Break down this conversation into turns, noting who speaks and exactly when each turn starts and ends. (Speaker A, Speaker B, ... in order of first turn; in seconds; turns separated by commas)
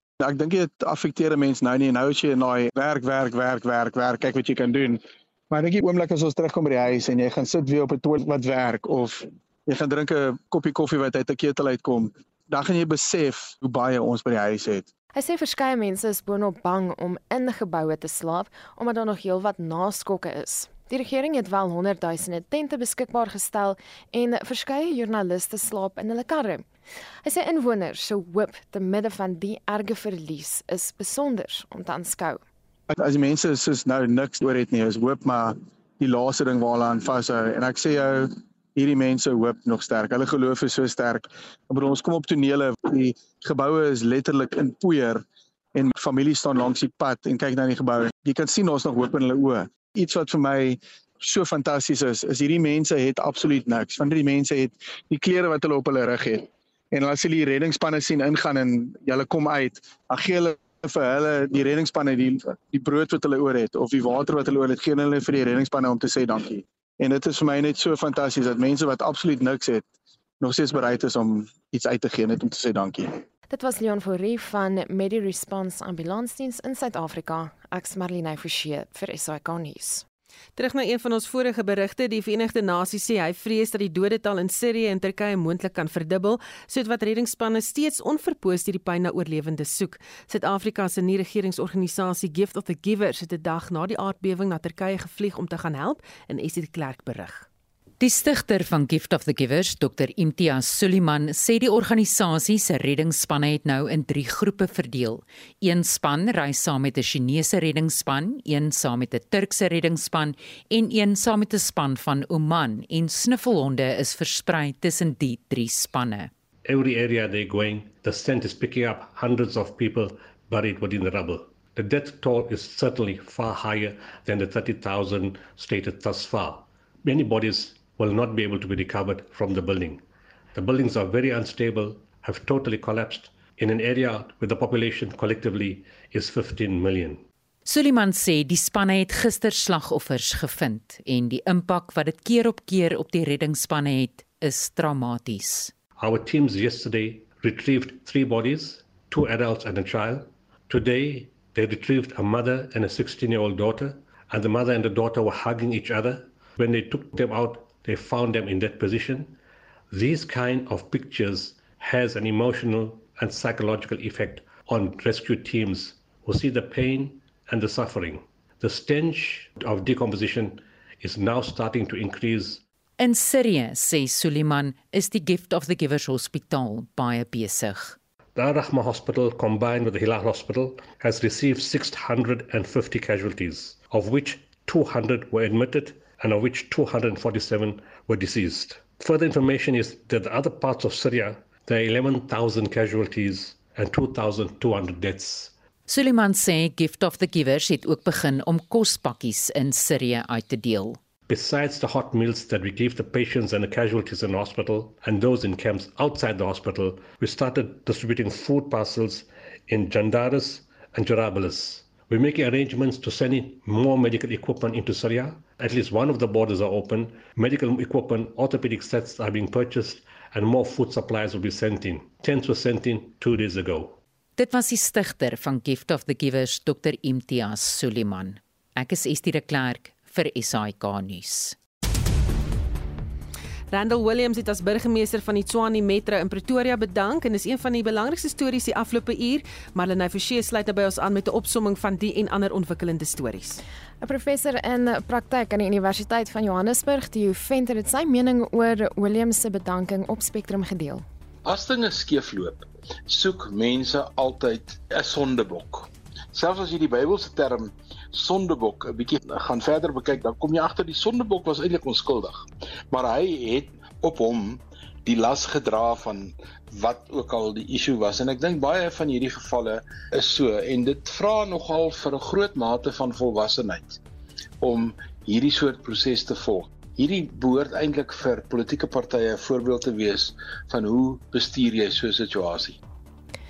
Speaker A: 0.2-14.9, Speaker B: 15.1-26.6, Speaker B: 27.2-32.4, Speaker A: 32.9-69.9, Speaker A: 70.4-73.1, Speaker B: 73.5-80.0, Speaker C: 80.6-97.5, Speaker D: 98.0-116.3, Speaker E: 116.7-130.0, Speaker E: 130.6-137.2, Speaker D: 137.7-145.7, Speaker E: 146.0-159.4, Speaker E: 159.9-172.6, Speaker D: 173.0-178.0, Speaker E: 178.4-195.6, Speaker D: 195.9-201.0, Speaker E: 201.3-224.0, Speaker D: 224.4-231.6, Speaker C: 233.7-243.6, Speaker B: 244.0-251.1, Speaker F: 251.4-274.0, Speaker F: 274.6-282.8